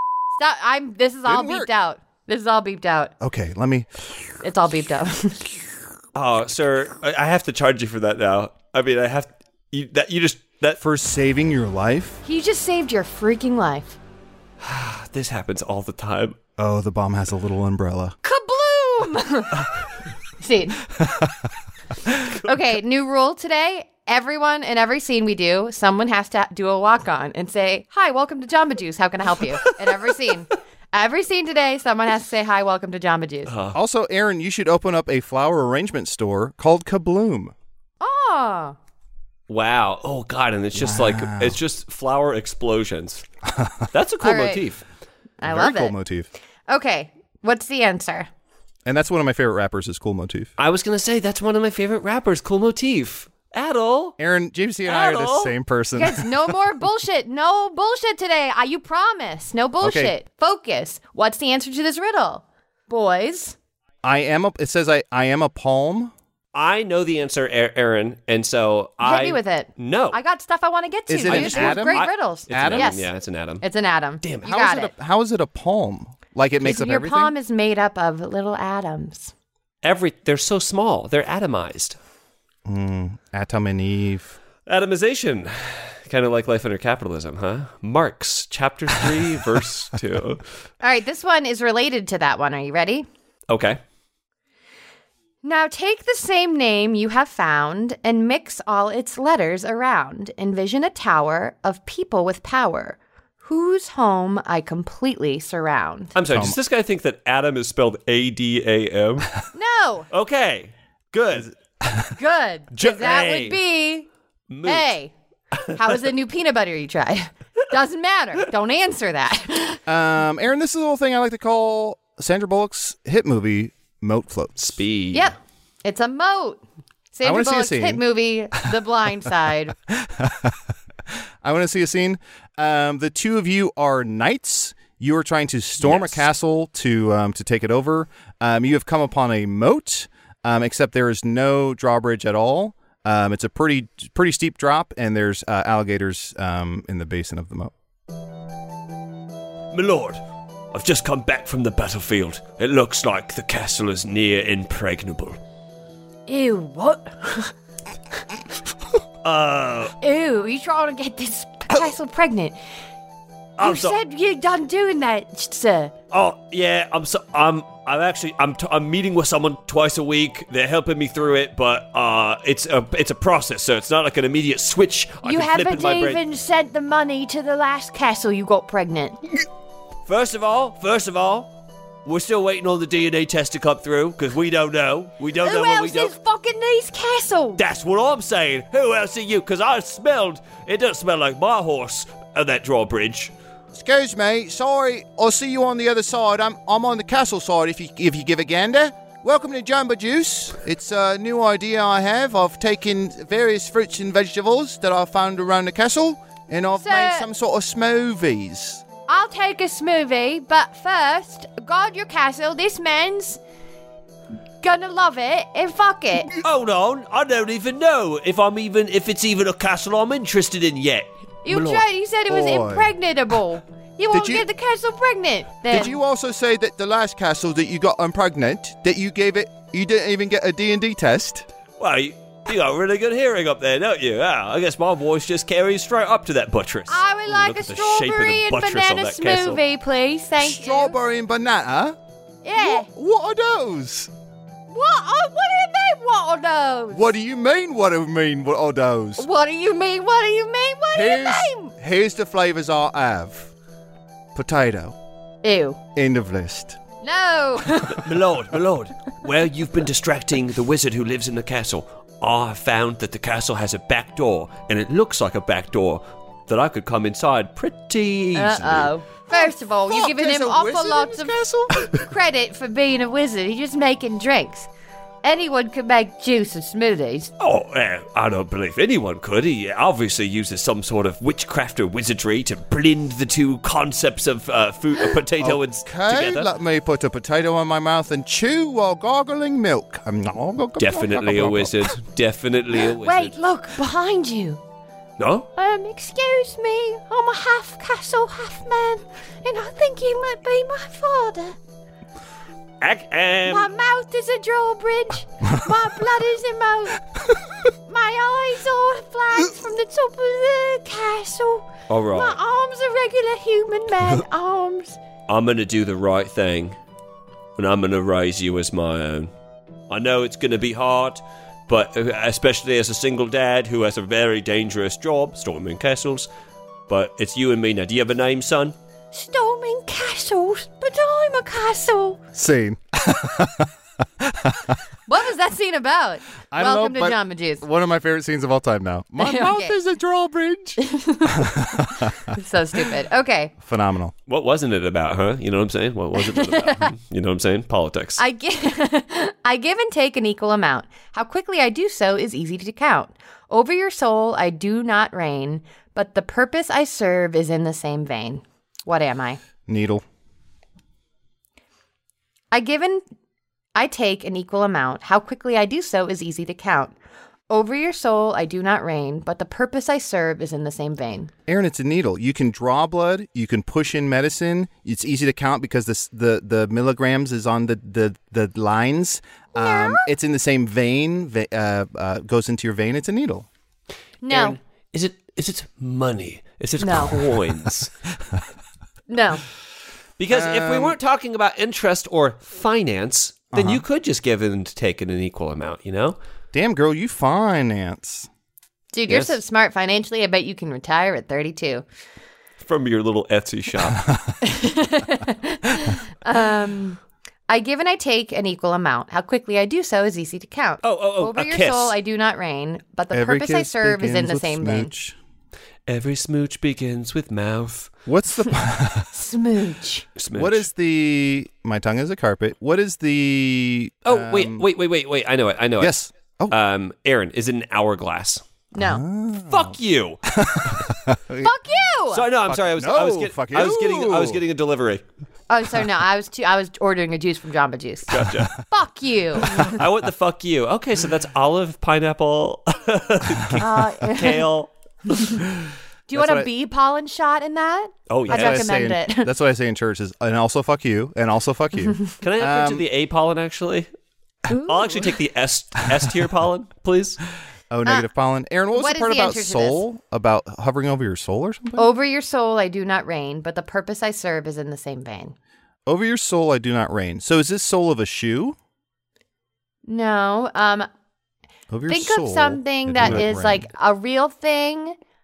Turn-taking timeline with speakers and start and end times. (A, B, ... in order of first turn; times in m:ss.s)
0:00.4-0:03.1 A
0:01.2-0:01.7 B
0:03.2-0:04.1 B
0:04.4-0:05.4 A
0:06.1-0:10.8 C
0:10.8-0:12.2 B
0:12.2-0:14.0 A
0:14.6-0:16.4 C
0:16.6-0:18.2 B
0:18.2-0:19.6 A
0:20.4-0:20.8 A
0:21.0-0:21.5 B
0:22.4-0:33.5 A
0:33.5-0:33.8 C
0:33.7-0:37.5 B
0:38.0-0:38.8 A
0:39.5-0:43.2 C
0:40.7-0:41.6 B
0:43.9-0:44.8 C
0:44.2-0:44.6 A
0:45.4-0:45.9 A
0:45.4-0:46.3 B
0:46.7-0:48.3 A
0:48.8-0:50.5 B
0:50.6-0:54.2 C
0:54.2-0:56.6 B
0:54.8-0:55.5 C
0:56.0-1:03.6 A
0:59.8-1:00.1 B
1:04.0-1:06.1 B
1:06.5-1:10.2 C
1:09.0-1:13.1 A
1:11.1-1:12.9 B
1:11.2-1:13.6 C
1:13.6-1:14.9 A
1:14.2-1:14.6 C
1:14.4-1:17.3 B
1:16.6-1:19.3 A
1:19.8-1:22.0 C
1:22.6-1:24.4 B
1:24.6-1:30.4 C
1:30.8-1:33.0 A
1:33.5-1:33.8 C
1:35.4-1:46.2 A
1:46.1-1:49.3 C
1:46.3-1:46.6 B
1:49.5-1:50.1 A
1:50.1-1:51.5 C
1:51.3-1:52.1 B
1:52.2-1:54.1 A
1:52.7-1:53.6 C
1:54.5-1:54.9 C
1:54.6-1:55.1 A
1:55.7-1:59.8 A
1:59.9-2:04.7 B
2:04.6-2:05.3 C
2:05.1-2:06.6 A
2:07.1-2:09.7 A
2:07.2-2:08.0 B
2:09.9-2:10.6 B
2:11.4-2:27.7 B
2:15.8-2:16.2 C
2:29.7-2:30.2 C
2:30.7-2:35.4 C
2:36.3-2:37.5 A
2:39.2-2:39.9 C
2:40.0-2:42.6 A
2:43.6-2:44.0 C
2:43.6-2:45.9 A
2:46.1-2:56.2 C
2:55.2-2:59.2 A
3:00.0-3:01.5 C
3:02.0-3:06.1 C
3:05.4-3:07.6 A
3:07.6-3:13.3 C
3:13.7-3:28.8 B
3:26.8-3:27.3 A
3:29.1-3:33.4 A
3:34.6-3:36.3 A
3:36.4-3:41.8 C
3:41.4-3:46.0 A
3:42.3-3:42.9 B
3:44.1-3:44.4 B
3:45.7-3:51.5 B
3:51.8-3:59.6 C
3:56.9-4:01.0 A
4:00.4-4:02.0 B
4:02.4-4:02.9 A
4:02.6-4:04.1 B
4:04.7-4:07.1 A
4:06.9-4:09.3 B
4:09.2-4:11.7 A
4:10.9-4:13.5 B
4:14.3-4:14.9 B
4:15.4-4:15.8 A
4:15.9-4:16.8 B
4:17.0-4:18.0 A
4:17.9-4:28.9 C
4:28.3-4:31.4 A
4:29.9-4:31.9 B
4:31.9-4:34.7 A
4:35.2-4:37.3 A
4:37.4-4:46.5 C
4:45.4-4:51.9 B
4:50.8-4:53.3 C
4:53.0-4:54.6 A
4:55.2-4:55.5 C
4:55.6-5:01.6 A
5:02.8-5:03.7 C
5:03.4-5:07.0 A
5:07.9-5:15.0 A
5:11.9-5:12.4 C
5:15.3-5:16.8 C
5:17.6-5:19.3 C
5:19.9-5:26.3 C
5:26.9-5:28.8 C
5:29.1-5:32.2 A
5:32.3-5:34.8 B
5:35.1-5:37.6 A
5:36.5-5:42.3 B
5:39.2-5:39.8 A
5:40.8-5:43.5 A
5:43.6-5:44.1 B
5:44.3-5:48.2 C
5:46.2-5:46.9 A
5:48.2-5:59.4 A
5:59.6-6:00.0 B
6:02.5-6:03.0 A
6:03.7-6:06.9 A
6:07.5-6:11.3 A
6:11.5-6:23.5 B
6:19.6-6:20.1 A
6:24.2-6:24.6 A
6:24.3-6:27.9 C
6:26.8-6:27.2 A
6:29.1-6:29.4 A
6:30.2-6:36.2 C
6:30.3-6:31.0 B
6:33.5-6:33.8 B
6:36.5-6:38.3 B
6:38.9-6:41.8 A
6:39.1-6:39.4 C
6:42.6-6:44.1 C
6:44.4-6:54.9 A
6:50.8-6:52.0 C
6:53.1-6:55.2 B
6:55.9-6:57.9 C
6:58.0-6:59.1 B
6:59.1-7:00.1 A
7:00.2-7:00.7 C
7:00.3-7:04.7 B
7:04.0-7:06.0 C
7:05.8-7:06.6 B
7:06.5-7:08.4 C
7:08.7-7:09.0 A
7:08.8-7:11.5 B
7:09.5-7:10.2 C
7:11.4-7:12.2 A
7:12.1-7:15.0 C
7:12.3-7:14.4 B
7:15.5-7:19.7 A
7:18.1-7:18.5 C
7:19.4-7:25.4 C
7:23.6-7:24.5 A
7:26.1-7:29.3 A
7:26.1-7:26.5 B
7:28.1-7:28.7 C
7:28.3-7:32.8 B
7:32.2-7:33.9 C
7:34.5-7:35.1 A
7:34.6-7:37.2 C
7:37.7-7:41.9 B
7:38.7-7:39.8 A
7:41.8-7:45.3 A
7:45.8-7:48.6 B
7:49.8-7:50.9 A
7:51.7-7:53.7 B
7:51.9-7:55.0 A
7:53.0-7:53.3 C